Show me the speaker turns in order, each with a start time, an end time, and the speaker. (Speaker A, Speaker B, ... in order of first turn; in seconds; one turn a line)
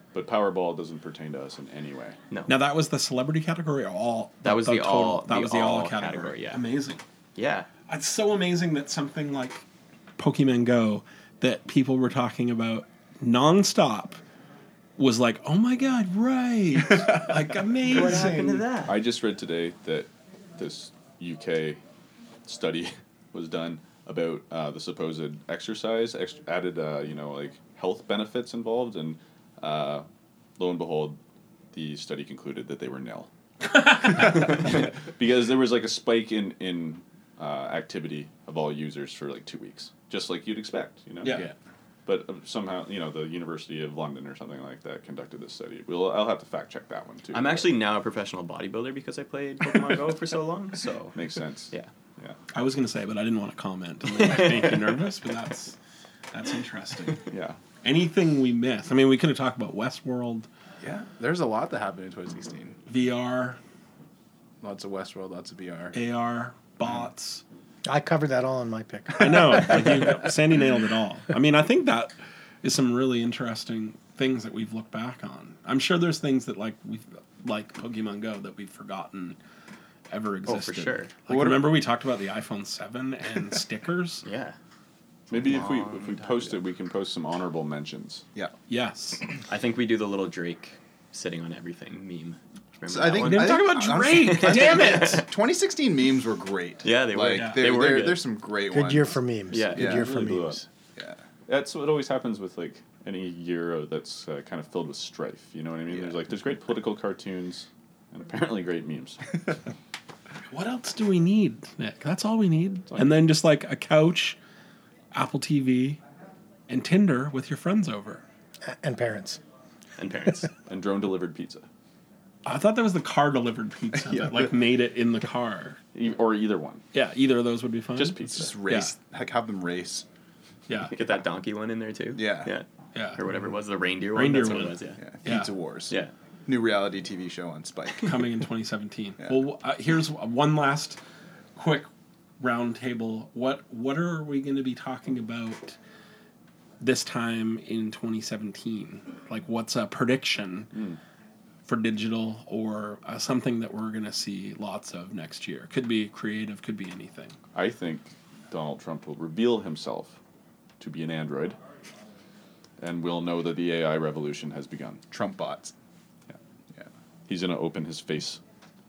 Speaker A: 0.1-2.2
Speaker B: 2.5-7.0
Speaker C: 4.4-6.6
Speaker C: 7.3-7.7
Speaker B: 7.9-9.6
Speaker B: 10.2-14.2
Speaker B: 15.0-18.6
Speaker D: 17.1-17.4
Speaker C: 17.9-19.0
Speaker D: 17.9-18.6
Speaker A: 18.8-21.8
Speaker A: 22.4-30.0
Speaker A: 30.6-31.2
Speaker A: 31.7-33.3
Speaker B: 33.6-34.3
Speaker A: 34.1-41.5
Speaker B: 41.2-41.5
Speaker A: 42.0-47.7
Speaker C: 47.3-51.2
Speaker A: 51.1-52.4
Speaker B: 52.5-55.8
Speaker B: 56.3-57.2
Speaker A: 57.3-57.6
Speaker B: 57.8-60.5
Speaker D: 60.8-62.8
Speaker B: 62.9-63.6
Speaker D: 64.6-65.9
Speaker B: 65.9-67.4
Speaker E: 67.8-70.2
Speaker B: 69.2-79.4
Speaker B: 80.1-84.2
Speaker C: 80.5-81.2
Speaker D: 81.4-81.6
Speaker C: 84.2-84.5
Speaker A: 85.3-88.2
Speaker C: 85.3-86.6
Speaker B: 88.7-89.2
Speaker C: 89.5-93.7
Speaker D: 92.9-99.2
Speaker B: 93.2-95.2
Speaker C: 94.2-95.3
Speaker C: 96.8-98.2
Speaker B: 97.3-97.6
Speaker E: 98.7-100.6
Speaker C: 99.5-100.1
Speaker D: 99.8-101.2
Speaker A: 99.8-100.6
Speaker A: 101.5-109.6
Speaker D: 105.9-106.2
Speaker B: 110.5-114.4
Speaker B: 115.1-116.0
Speaker B: 116.7-118.2
Speaker E: 118.7-119.4
Speaker C: 120.0-120.5
Speaker A: 120.7-121.7
Speaker B: 122.5-125.8
Speaker D: 124.0-124.4
Speaker A: 125.9-126.8
Speaker B: 126.9-128.9
Speaker A: 128.0-128.5
Speaker D: 128.0-130.0
Speaker B: 130.7-130.9
Speaker C: 130.9-135.0
Speaker D: 132.1-132.5
Speaker B: 132.9-133.2
Speaker B: 134.1-135.5
Speaker D: 135.0-135.9
Speaker D: 136.5-138.2
Speaker B: 138.0-141.0
Speaker B: 141.6-145.8
Speaker B: 146.8-150.7
Speaker A: 150.7-151.0
Speaker B: 151.7-157.4
Speaker A: 157.5-160.2
Speaker A: 160.8-161.6
Speaker A: 162.8-165.0
Speaker D: 165.1-165.7
Speaker A: 167.3-168.4